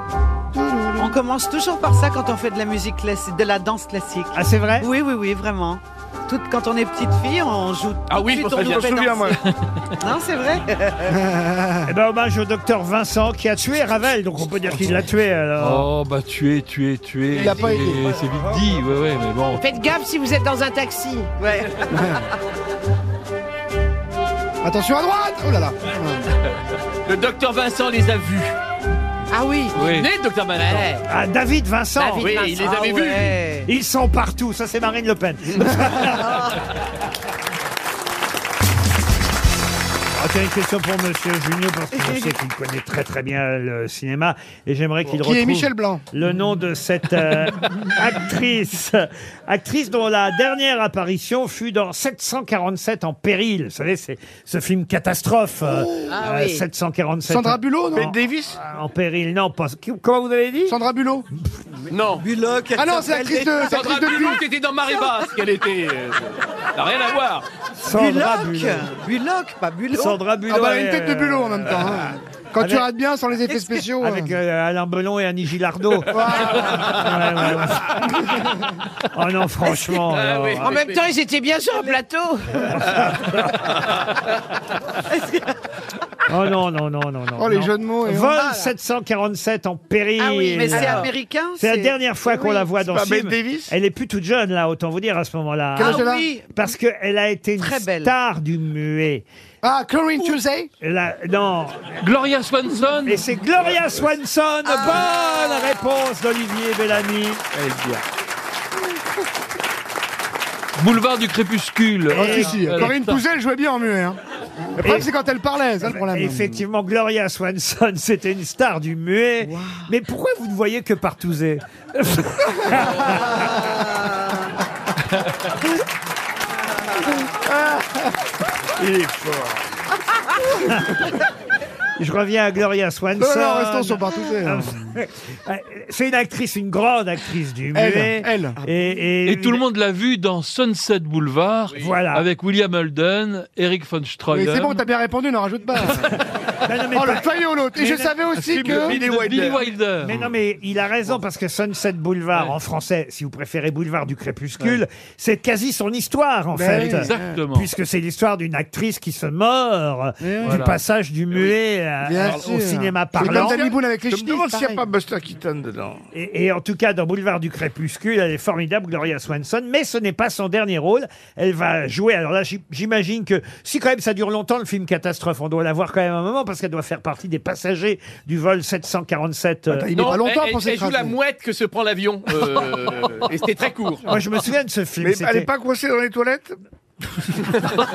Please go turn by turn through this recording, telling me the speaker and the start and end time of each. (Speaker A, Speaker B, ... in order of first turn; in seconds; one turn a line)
Speaker A: 0.5-1.1
Speaker B: 1.0-9.2
Speaker C: 4.3-4.9
Speaker D: 8.1-9.2
Speaker E: 8.6-9.4
Speaker F: 9.5-9.8
Speaker B: 10.0-11.2
Speaker A: 11.1-11.9
Speaker C: 11.8-15.9
Speaker F: 15.6-19.6
Speaker A: 17.3-18.1
Speaker G: 19.5-21.3
Speaker B: 21.4-21.9
Speaker A: 21.9-22.2
Speaker A: 24.6-26.3
Speaker D: 27.1-28.5
Speaker G: 29.3-29.8
Speaker F: 29.7-30.1
Speaker D: 29.7-30.9
Speaker G: 30.6-31.0
Speaker C: 31.1-32.3
Speaker G: 32.0-33.2
Speaker D: 32.2-33.4
Speaker B: 32.6-33.7
Speaker C: 33.6-36.5
Speaker C: 40.2-60.8
Speaker A: 45.1-46.0
Speaker G: 56.0-56.6
Speaker A: 57.3-58.1
Speaker E: 57.9-58.6
Speaker A: 60.7-61.3
Speaker D: 61.9-62.2
Speaker B: 62.2-64.0
Speaker A: 62.8-64.4
Speaker D: 63.6-67.5
Speaker C: 67.8-68.9
Speaker B: 67.9-70.2
Speaker C: 69.9-72.9
Speaker A: 70.5-74.3
Speaker B: 73.5-73.8
Speaker C: 74.0-78.3
Speaker A: 76.1-77.0
Speaker C: 79.1-80.8
Speaker D: 80.0-81.1
Speaker G: 80.6-82.9
Speaker C: 82.8-83.6
Speaker B: 85.1-85.4
Speaker C: 86.3-99.2
Speaker A: 87.4-88.4
Speaker B: 90.2-92.6
Speaker G: 90.7-91.1
Speaker E: 92.8-93.7
Speaker A: 95.8-96.3
Speaker B: 95.8-96.5
Speaker B: 97.6-98.1
Speaker A: 99.6-100.7
Speaker C: 100.8-101.9
Speaker F: 102.0-103.2
Speaker C: 103.0-107.4
Speaker F: 110.8-113.2
Speaker C: 112.1-112.9
Speaker A: 112.1-114.2
Speaker A: 114.8-116.6
Speaker C: 114.8-115.1
Speaker C: 115.8-123.6
Speaker B: 119.4-119.9
Speaker E: 128.8-129.7
Speaker C: 132.0-139.6
Speaker A: 133.2-134.8
Speaker A: 137.7-138.6
Speaker F: 139.2-144.8
Speaker C: 141.7-142.2
Speaker A: 144.3-146.2
Speaker C: 146.6-148.2
Speaker A: 146.9-149.0
Speaker E: 148.4-149.8
Speaker F: 148.7-150.3
Speaker C: 150.0-163.6
Speaker A: 156.5-157.4
Speaker F: 156.8-157.7
Speaker A: 160.2-160.6
Speaker F: 160.4-160.8
Speaker A: 162.0-164.8
Speaker E: 163.2-166.0
Speaker C: 166.1-179.9
Speaker A: 179.7-181.1
Speaker D: 179.9-184.1
Speaker C: 184.1-185.5
Speaker E: 185.0-186.6
Speaker E: 187.1-187.4